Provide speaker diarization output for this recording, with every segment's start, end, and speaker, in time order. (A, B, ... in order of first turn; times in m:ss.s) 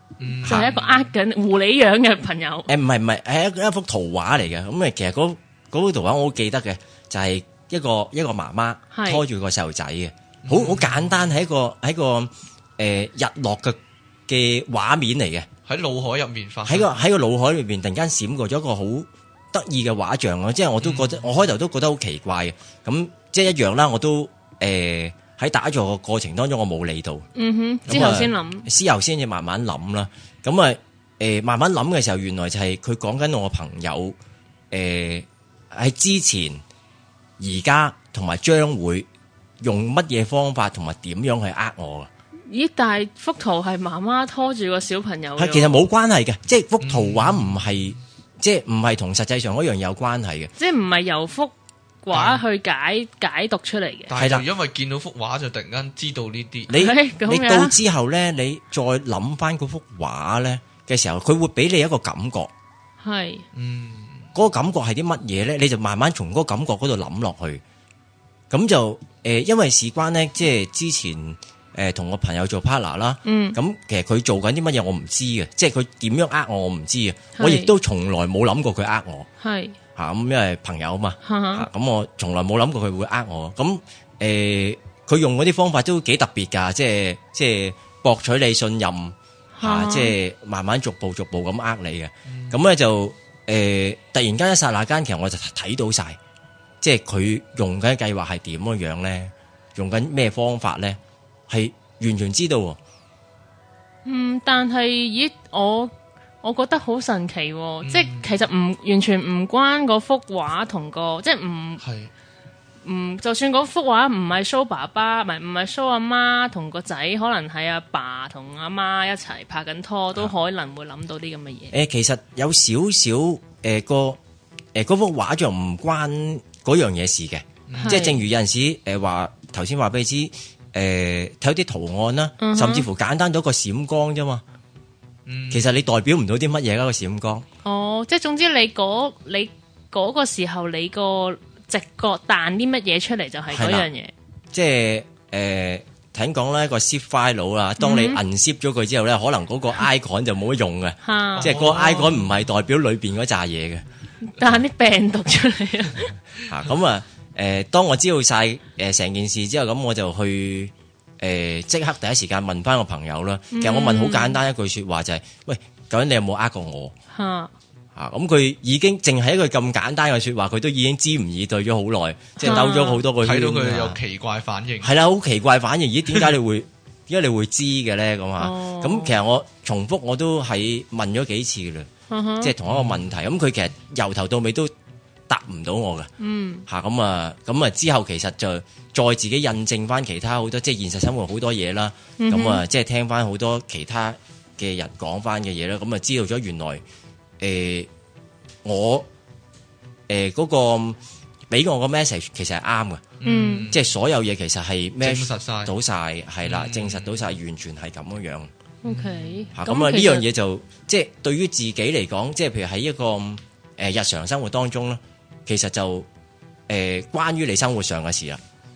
0:00.2-0:01.1 A
0:00.4-0:00.7 B
0:00.4-0:02.7 C
0:02.7-0:15.5 B
0:08.9-0:09.2 C
0:10.4-0:11.3 A
0:15.7-0:16.9 A
0:16.6-0:27.2 B
0:20.8-0:21.2 A
0:27.3-0:28.7 C
0:27.8-0:34.2 B
0:34.7-0:36.6 B
0:37.4-0:39.1 B
0:39.6-0:42.1 B
0:42.5-0:45.8 C
0:45.4-0:50.5 B
0:46.8-0:48.0 A
0:50.6-0:54.1 C
0:52.1-0:52.4 A
0:54.1-0:56.7 A
0:54.2-0:54.4 B
0:56.7-1:02.5 B
0:56.7-0:57.8 C
1:03.0-1:03.4 C
1:03.5-1:04.3 A
1:04.3-1:07.6 B
1:08.5-1:19.3 B
1:13.2-1:13.6 C
1:17.3-1:17.7 C
1:19.4-1:19.8 C
1:20.0-1:36.2 B
1:21.2-1:21.7 C
1:29.6-1:30.1 C
1:32.2-1:32.6 A
1:36.8-1:42.8 B
1:44.0-1:51.8 C
1:47.8-1:48.5 A
1:51.8-1:52.1 A
1:52.8-2:01.7 C
2:01.7-2:04.2 B
2:04.7-2:14.4 B
2:07.7-2:08.0 A
2:07.8-2:08.2 C
2:12.4-2:12.9 C
2:15.2-2:15.7 A
2:15.5-2:17.4 B
2:17.6-2:24.1 C
2:23.5-2:23.9 B
2:24.5-2:33.8 B
2:27.8-2:28.2 C
2:31.0-2:31.6 C
2:31.4-2:32.3 A
2:34.2-2:36.2 C
2:36.5-2:46.9 B
2:43.5-2:44.4 C
2:47.1-2:47.5 C
2:47.9-2:54.0 B
2:52.4-2:53.0 C
2:53.2-2:54.9 A
2:54.8-3:01.9 B
2:58.4-2:59.1 C
3:02.1-3:02.5 C
3:02.4-3:04.7 B
3:02.6-3:03.1 A
3:05.3-3:06.1 B
3:06.2-3:06.6 C
3:06.7-3:16.8 B
3:12.2-3:12.6 C
3:17.4-3:17.9 B
3:18.6-3:19.1 B
3:20.1-3:21.0 B
3:21.5-3:23.2 B
3:23.2-3:23.9 A
3:23.2-3:23.7 C
3:23.7-3:28.5 B
3:25.0-3:25.7 A
3:26.4-3:27.3 A
3:28.8-3:30.2 C
3:28.8-3:29.5 A
3:29.5-3:36.1 B
3:36.7-3:38.4 B